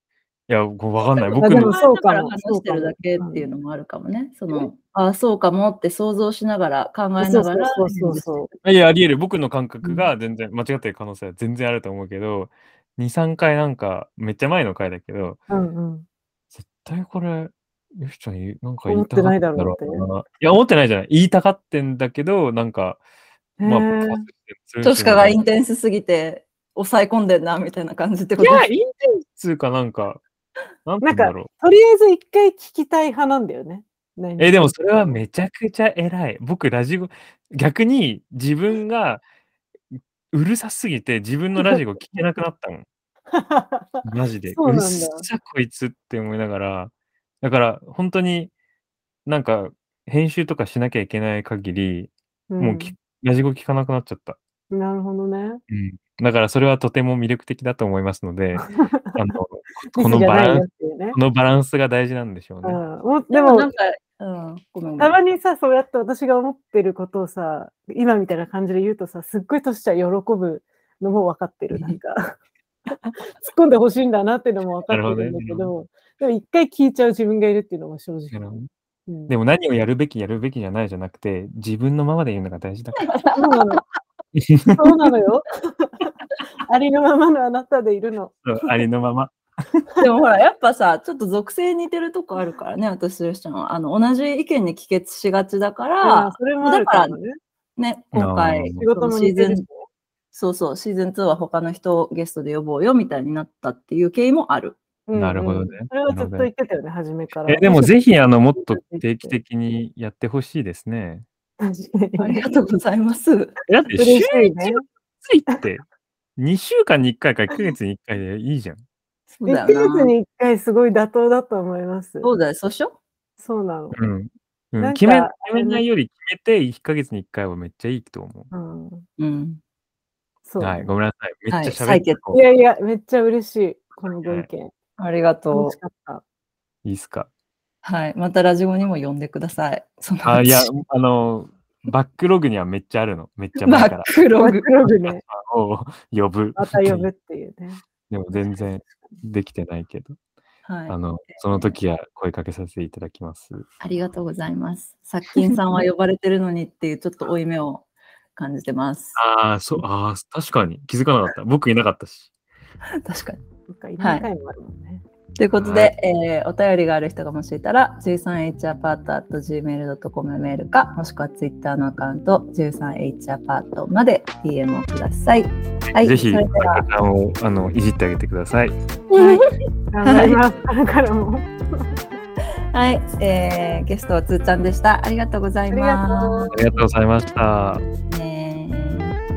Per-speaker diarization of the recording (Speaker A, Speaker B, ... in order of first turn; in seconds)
Speaker A: 0.5-1.7, 8.6-15.4, 16.5-23.0, 23.6-25.4, 28.4-30.2, 30.8-31.5, 34.4-39.2, 39.9-42.9, 44.0-48.5, 49.2-54.4, 55.7-62.8, 74.9-75.7, 78.3-78.7, 79.3-83.1, 84.3-85.1, 88.4-89.4, 98.1-98.8, 105.1-106.5, 107.5-111.2, 113.7-115.8, 116.4-118.8, 123.9-128.5, 130.6-132.4, 134.2-134.5, 136.8-137.3, 140.2-144.1, 145.1-147.1, 148.1-150.2, 150.9-153.6, 159.2-162.3, 165.5-165.9, 175.9-178.8, 186.5-187.8
Speaker B: 1.1-8.5, 24.8-28.7, 63.3-65.2, 71.7-72.0, 83.0-83.8, 90.0-97.2, 97.8-99.6, 100.3-104.8, 112.2-113.5, 119.3-120.1, 122.2-123.0, 129.2-129.6, 131.5-132.2, 135.0-135.8, 137.8-140.7, 143.6-144.7, 150.7-151.7, 153.8-157.8, 158.3-159.2, 163.0-163.4, 164.0-164.2, 165.4-176.8, 179.1-179.5, 180.0-180.4, 182.7-186.5, 188.1-189.1
Speaker C: 1.4-3.5, 7.2-8.5, 9.8-10.1, 15.5-16.0, 18.9-20.1, 23.6-24.2, 31.0-34.9, 43.3-45.3, 52.5-52.9, 54.7-55.6, 58.6-59.3, 59.9-61.2, 62.6-63.7, 65.0-78.5, 79.1-79.3, 83.3-83.8, 84.8-86.1, 86.6-88.3, 96.0-97.3, 98.8-99.9, 105.1-107.9, 108.5-109.3, 111.6-112.4, 114.0-114.8, 119.5-122.3, 123.4-124.0, 124.8-125.8, 128.5-129.1, 130.4-130.9, 132.3-134.7, 135.5-136.2, 144.4-145.2, 146.6-147.8, 148.3-148.6, 163.7-165.0, 179.1-181.9, 185.7-186.5